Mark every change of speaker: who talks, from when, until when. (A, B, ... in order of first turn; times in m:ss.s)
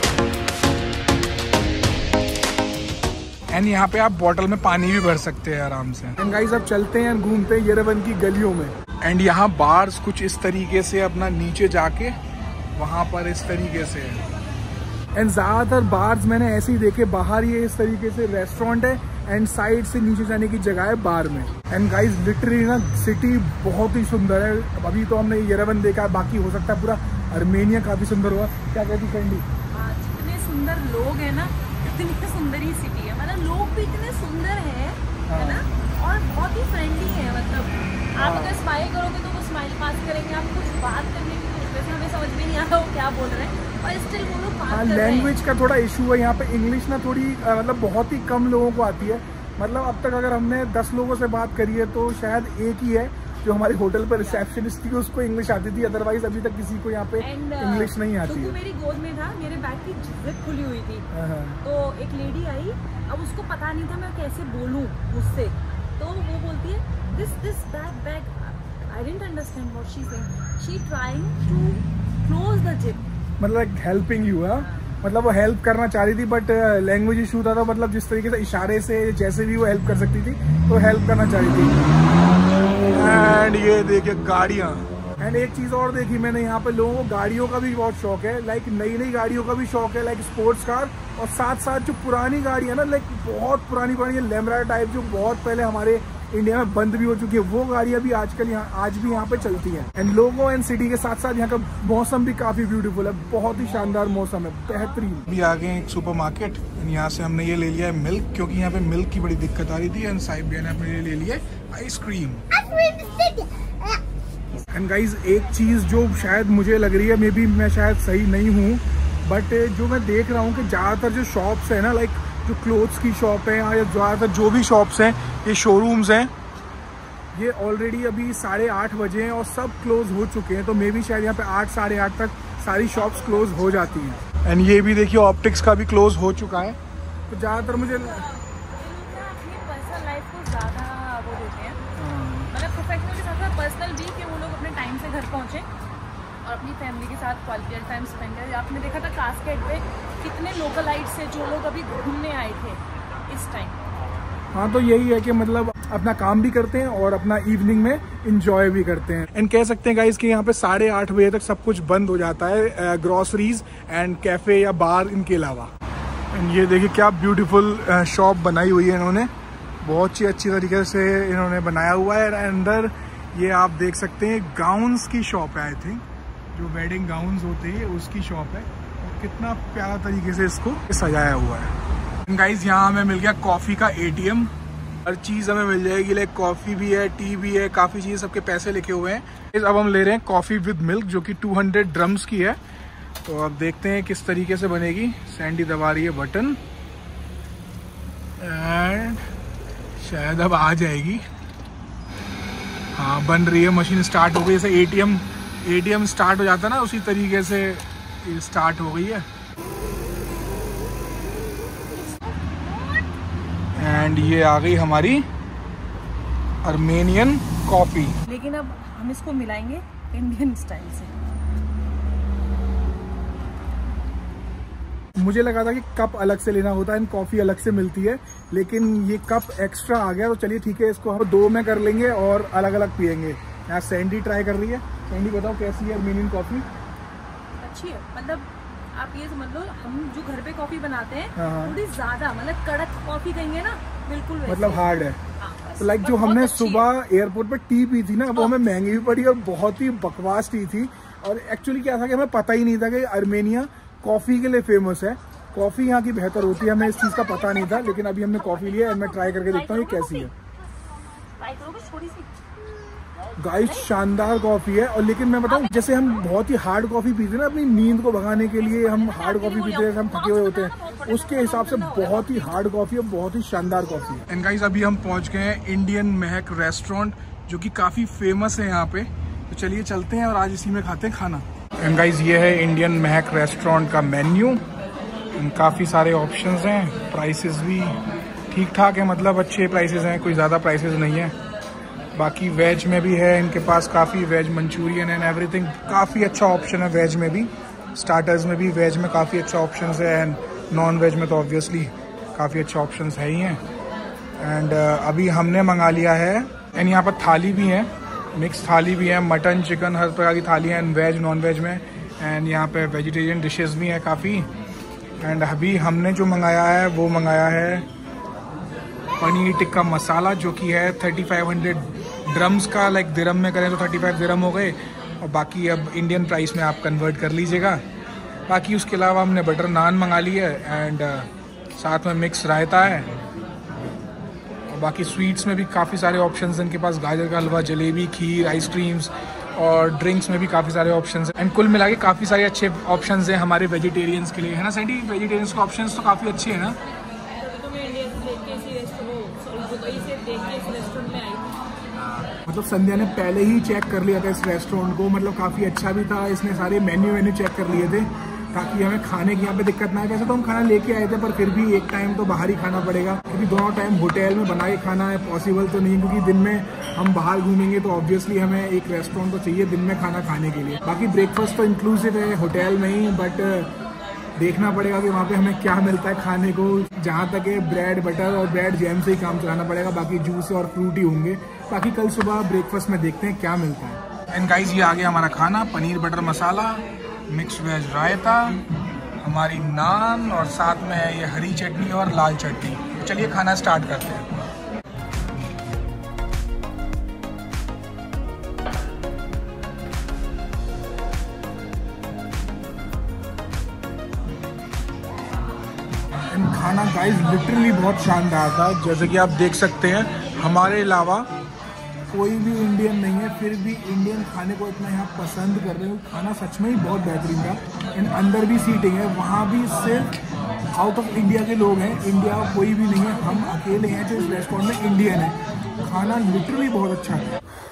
0:03.5-0:12.2 A
0:12.8-0:14.2 A
0:15.2-0:29.4 A
0:29.7-0:45.4 B
0:35.3-0:35.7 A
0:38.2-0:38.6 A
0:44.7-0:58.6 A
0:54.2-0:54.4 B
0:57.2-1:01.1 B
1:01.1-1:01.6 A
1:01.6-1:13.0 B
1:13.4-1:21.9 A
1:14.6-1:14.9 B
1:22.9-1:52.5 A
1:54.7-2:06.3 A
2:07.3-2:16.8 A
2:17.3-2:18.2 A
2:17.6-2:21.8 B
2:22.0-2:22.5 A
2:22.5-2:25.7 B
2:26.4-2:33.8 B
2:34.5-2:45.7 A
2:46.3-2:49.3 A
2:49.8-3:01.7 A
3:02.3-3:04.5 A
3:05.1-3:12.6 A
3:13.2-3:16.6 A
3:18.4-3:19.2 A
3:20.0-3:21.3 A
3:23.0-3:29.3 A
3:33.8-3:35.3 A
3:36.6-3:38.2 A
3:38.3-3:41.2 B
3:45.2-3:56.7 A
3:57.6-4:04.8 B
4:01.4-4:01.8 A
4:04.5-4:05.2 A
4:05.4-4:06.9 B
4:05.8-4:20.3 A
4:17.5-4:20.3 B
4:21.4-4:22.3 B
4:23.4-4:44.6 A
4:25.6-4:25.9 B
4:28.8-4:32.6 B
4:45.4-4:48.0 A
4:48.5-4:51.4 A
4:52.2-5:03.6 A
5:04.4-5:14.5 A
5:15.2-5:17.9 A
5:19.2-5:27.8 A
5:28.5-5:33.1 A
5:34.7-5:46.8 A
5:47.4-5:51.6 B
5:52.2-6:13.7 A
6:14.4-6:28.6 A
6:29.2-6:34.5 A
6:46.3-6:51.3 A
6:52.1-7:00.2 A
7:00.8-7:07.4 A